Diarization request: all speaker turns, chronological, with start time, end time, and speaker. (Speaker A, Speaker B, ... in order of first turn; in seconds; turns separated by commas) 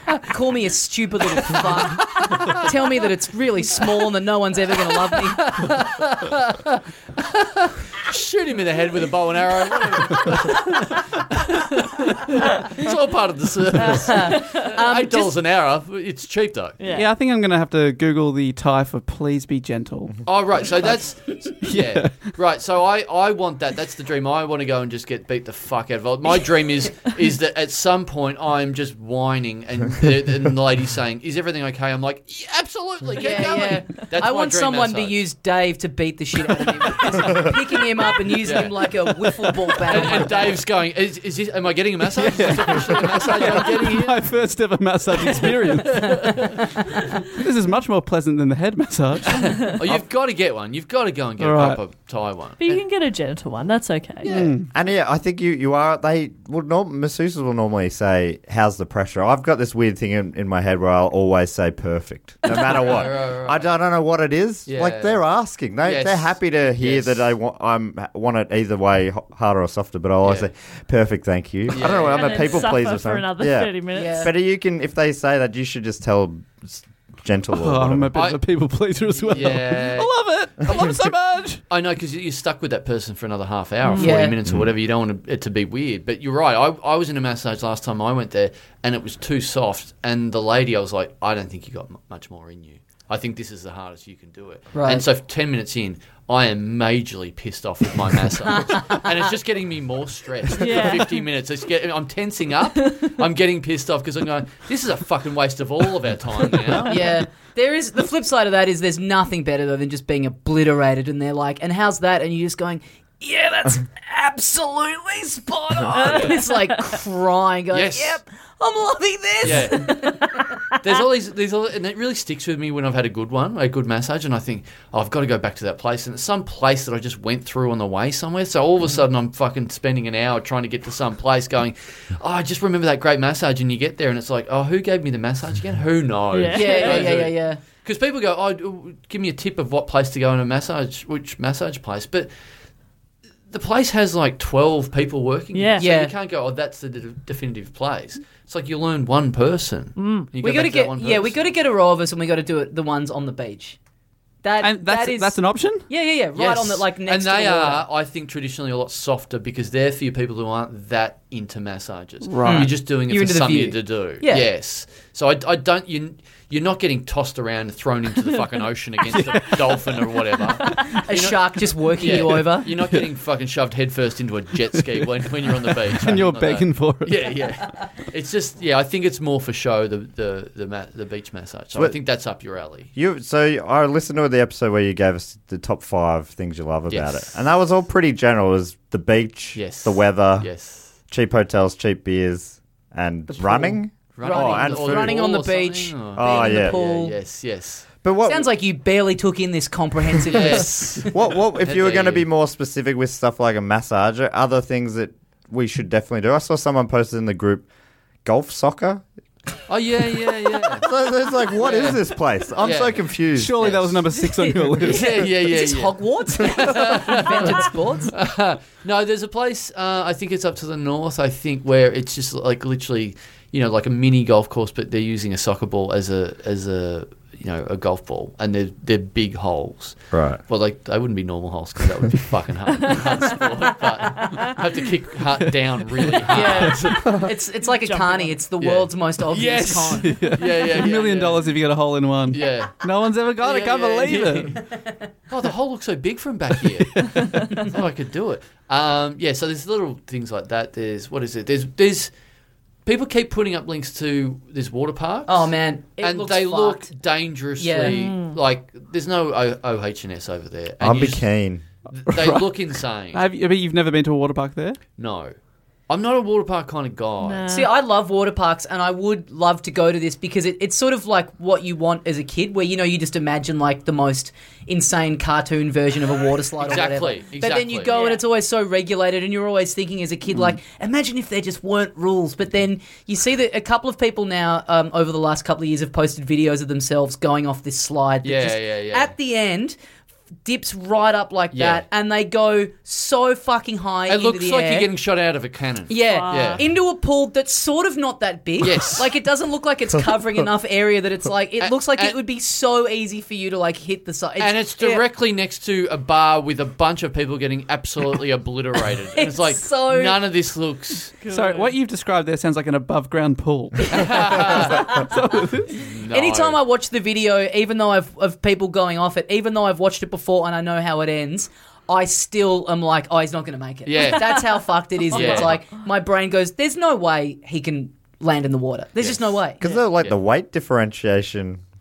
Speaker A: 0.2-5.7, Speaker B: 1.4-2.7, Speaker B: 5.1-16.8, Speaker A: 13.8-15.4, Speaker C: 14.2-14.6, Speaker C: 16.8-17.1, Speaker D: 16.9-20.2, Speaker B: 20.3-35.2, Speaker D: 21.6-22.3, Speaker A: 33.2-40.6, Speaker B: 38.4-38.8, Speaker B: 39.9-44.3, Speaker D: 42.1-46.5, Speaker B: 45.2-46.6, Speaker D: 47.2-50.0, Speaker B: 49.3-52.8, Speaker D: 51.4-51.8, Speaker C: 52.6-54.4, Speaker B: 54.2-54.5, Speaker D: 54.3-54.7, Speaker E: 54.6-78.1, Speaker B: 62.5-63.7, Speaker B: 64.7-65.2, Speaker B: 65.8-67.3, Speaker B: 70.2-70.5, Speaker B: 71.7-72.5, Speaker C: 72.0-74.3, Speaker A: 73.9-74.3, Speaker D: 77.5-81.6, Speaker B: 78.1-78.4, Speaker B: 79.2-80.2, Speaker B: 80.7-80.9, Speaker B: 81.7-107.1, Speaker C: 83.8-84.2, Speaker A: 84.0-84.4, Speaker A: 94.7-95.1, Speaker A: 98.5-99.0, Speaker C: 100.5-101.2, Speaker A: 106.8-120.5, Speaker B: 115.9-116.4, Speaker C: 115.9-116.9, Speaker B: 117.7-118.2, Speaker B: 119.4-120.0, Speaker B: 120.8-142.3, Speaker C: 136.3-137.2, Speaker A: 136.5-137.6, Speaker B: 143.5-151.4, Speaker C: 145.5-145.9, Speaker A: 145.8-146.1, Speaker C: 150.0-150.3, Speaker A: 150.4-153.8, Speaker A: 154.4-157.9, Speaker D: 154.6-155.9, Speaker B: 156.4-182.9, Speaker D: 162.2-162.7, Speaker A: 162.4-164.5, Speaker D: 169.1-171.0, Speaker A: 171.1-172.7, Speaker D: 172.3-173.1, Speaker D: 175.5-177.3, Speaker E: 182.9-190.5, Speaker B: 186.9-187.3, Speaker B: 189.6-190.9, Speaker E: 191.1-195.3, Speaker B: 194.2-197.9, Speaker A: 194.2-197.2, Speaker E: 196.1-196.8, Speaker E: 198.0-198.5, Speaker A: 198.3-201.1, Speaker B: 200.3-202.3, Speaker E: 201.1-207.7, Speaker E: 208.2-209.0, Speaker B: 209.7-210.9, Speaker E: 210.7-214.1, Speaker B: 211.5-212.1, Speaker B: 212.6-213.1, Speaker D: 213.3-215.1, Speaker A: 214.4-218.1, Speaker B: 214.8-237.1, Speaker E: 230.1-230.4, Speaker C: 232.8-233.5, Speaker C: 234.1-234.6, Speaker D: 235.9-236.7, Speaker A: 236.3-240.1, Speaker C: 236.5-238.4, Speaker B: 238.6-241.5, Speaker D: 240.0-244.6, Speaker B: 242.3-242.9, Speaker B: 243.4-244.6, Speaker B: 245.3-252.1, Speaker D: 246.7-247.3, Speaker C: 247.2-247.7, Speaker B: 252.8-261.3, Speaker A: 255.3-256.9, Speaker A: 257.6-258.0, Speaker C: 257.8-258.4, Speaker E: 260.8-261.6, Speaker B: 261.9-263.2, Speaker D: 262.1-262.5, Speaker D: 263.1-264.8, Speaker B: 265.0-265.3, Speaker B: 265.9-267.5, Speaker C: 267.2-267.7, Speaker A: 267.5-289.8, Speaker B: 276.6-278.0, Speaker C: 277.9-278.2, Speaker B: 288.2-289.1, Speaker A: 290.4-294.9, Speaker B: 291.5-291.8, Speaker B: 294.1-296.6, Speaker A: 295.9-305.0, Speaker C: 296.0-296.6, Speaker B: 298.6-299.1, Speaker B: 301.6-302.2, Speaker B: 304.4-311.1, Speaker A: 309.1-310.2, Speaker C: 311.2-311.8, Speaker D: 311.3-315.8, Speaker B: 313.9-314.9, Speaker B: 315.8-316.6, Speaker A: 316.1-329.6, Speaker B: 323.9-324.5, Speaker B: 325.1-325.6, Speaker C: 325.1-325.5, Speaker B: 329.0-329.3, Speaker E: 329.6-331.6